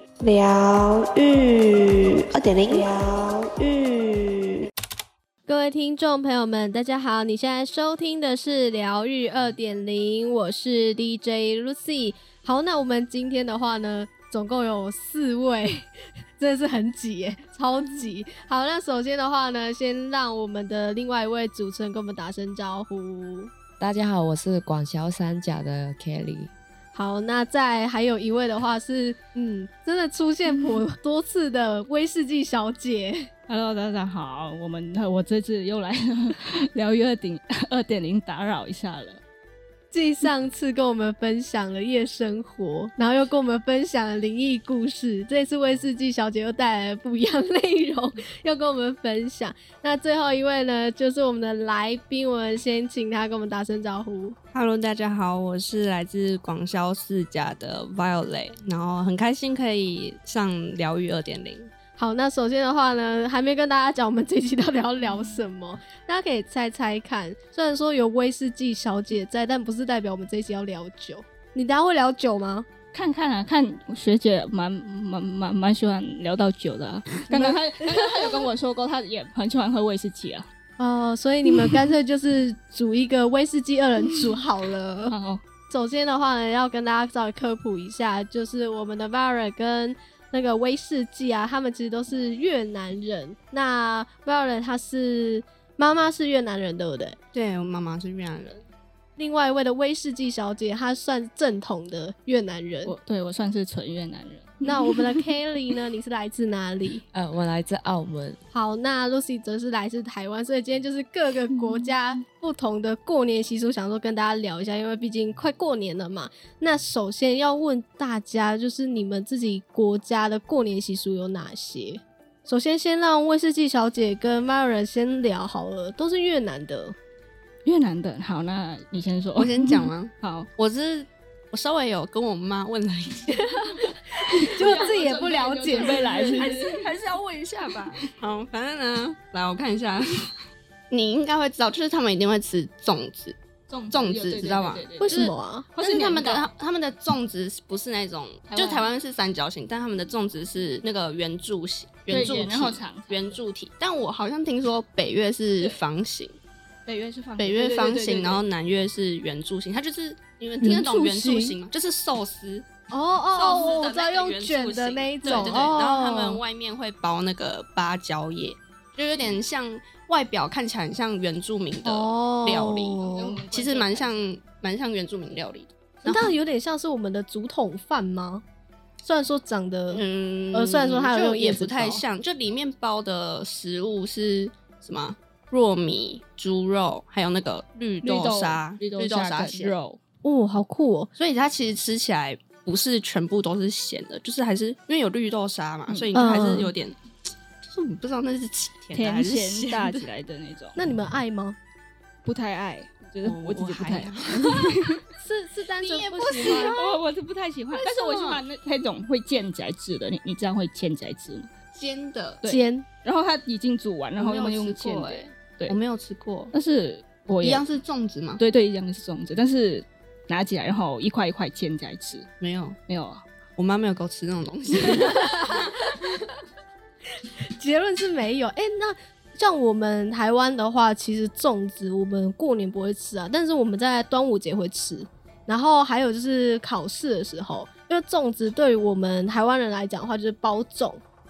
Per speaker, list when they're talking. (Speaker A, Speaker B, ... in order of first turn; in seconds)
Speaker A: 0.2-4.7
Speaker B: 5.5-23.5, 26.9-33.3, 39.9-54.4, 62.0-72.7, 77.3-78.5, 80.8-85.2, 85.7-97.2, 99.2-102.9, 104.6-107.0, 108.5-127.0, 133.3-136.4, 145.0-145.7, 160.6-161.6, 162.9-166.4, 171.8-173.3, 176.0-178.4, 179.0-182.0, 190.2-191.1, 196.1-196.7, 200.8-201.6, 205.2-206.8, 212.4-212.9, 225.2-225.6, 227.2-241.0
Speaker C: 23.8-26.5, 107.1-108.4
Speaker D: 33.5-39.2, 72.9-80.5, 85.1-85.4, 102.8-105.1, 127.7-130.5, 134.2-136.9, 143.7-146.5, 148.5-148.9, 152.1-153.4, 156.9-158.4, 165.2-165.7, 173.1-174.2, 188.0-190.0, 198.9-200.8, 202.2-205.0, 206.4-211.5, 212.4-215.8, 216.5-217.7, 218.4-222.3, 222.9-223.2
Speaker E: 54.5-61.7, 97.3-98.6, 129.3-133.6, 134.7-135.0, 135.8-140.3, 140.9-143.4, 143.9-156.4, 157.4-162.7, 163.3-176.4, 179.9-189.7, 191.2-197.0, 197.6-200.1, 203.2-204.8, 205.8-207.0, 207.7-208.4, 211.8-212.4, 214.2-216.5, 217.4-218.4, 222.4-222.8, 223.6-226.0